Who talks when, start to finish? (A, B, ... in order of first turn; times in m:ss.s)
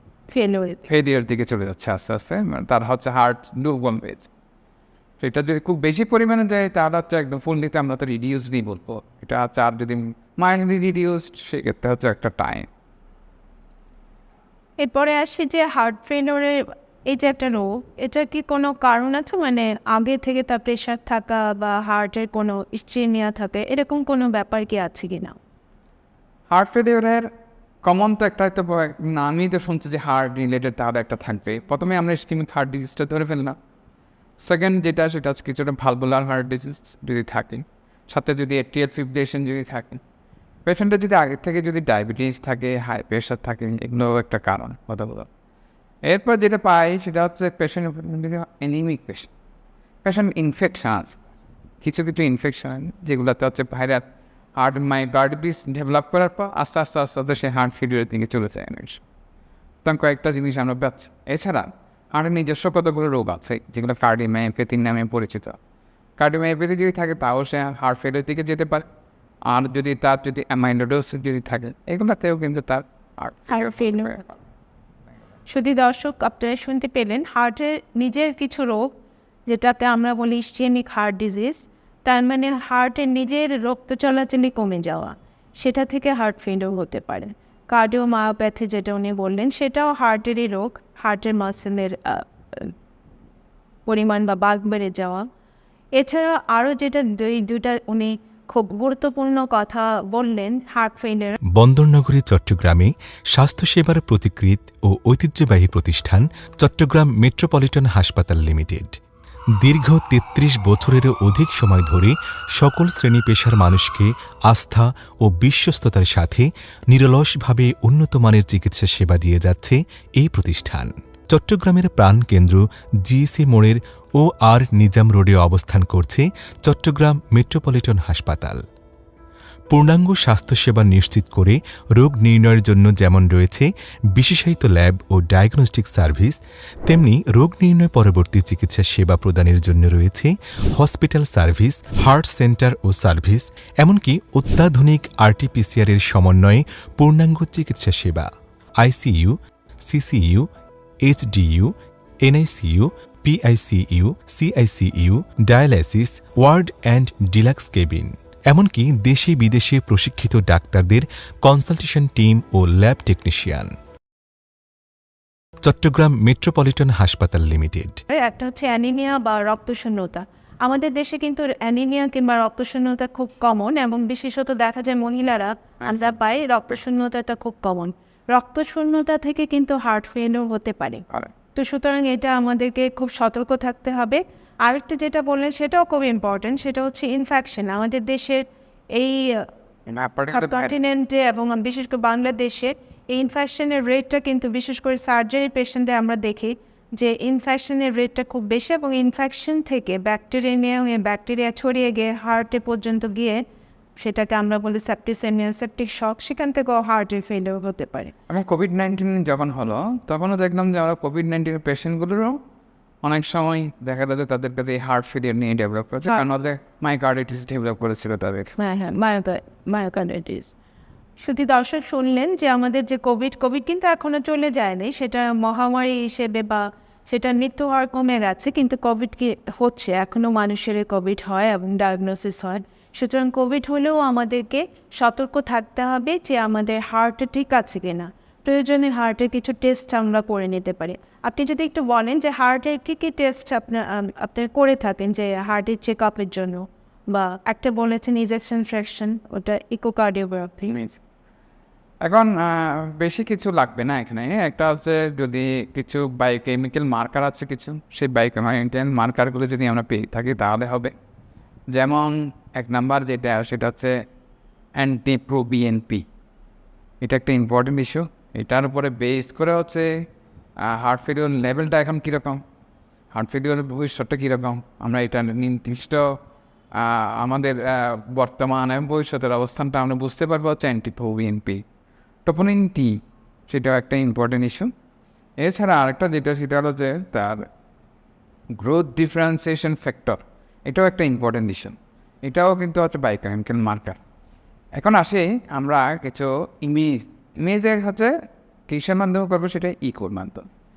0:00.3-0:00.9 A
0:00.9-0:04.3 B
0:05.2-0:12.7 B
0:14.8-0:25.4 A
0:26.5-0:27.3 B
0:27.8-0:33.6 B
0:34.4-0:40.0 B
0:40.6-0:45.3 B
0:46.0-0:49.3 B
0:50.0-0:51.2 B
0:51.8-0:59.0 B
0:59.8-1:05.6 B
1:06.2-1:08.9 B
1:09.4-1:14.3 B
1:13.5-1:14.2 A
1:15.5-1:18.9 A
1:19.5-1:32.7 A
1:33.9-1:35.3 A
1:36.0-1:41.4 A
1:41.5-1:49.0 C
1:49.6-2:08.6 C
2:09.7-2:30.5 C
2:31.0-2:43.7 C
2:45.6-2:48.0 C
2:48.1-3:01.0 A
2:55.8-2:56.1 B
3:01.5-3:09.5 A
3:09.8-3:10.8 B
3:10.3-3:23.4 A
3:24.0-3:28.1 A
3:28.3-3:32.4 B
3:33.0-3:38.5 B
3:38.6-3:40.5 A
3:41.2-4:10.7 A
4:10.7-4:11.0 B
4:12.0-4:20.9 B
4:21.7-4:24.0 B
4:24.8-4:26.0 B
4:27.0-4:29.9 B
4:30.6-4:32.4 B
4:33.1-4:36.2 B
4:36.7-4:41.6 B
4:42.2-4:44.7 B
4:45.4-4:47.5 B
4:48.6-4:54.0 B
4:54.8-4:58.1 B
4:58.7-5:00.5 B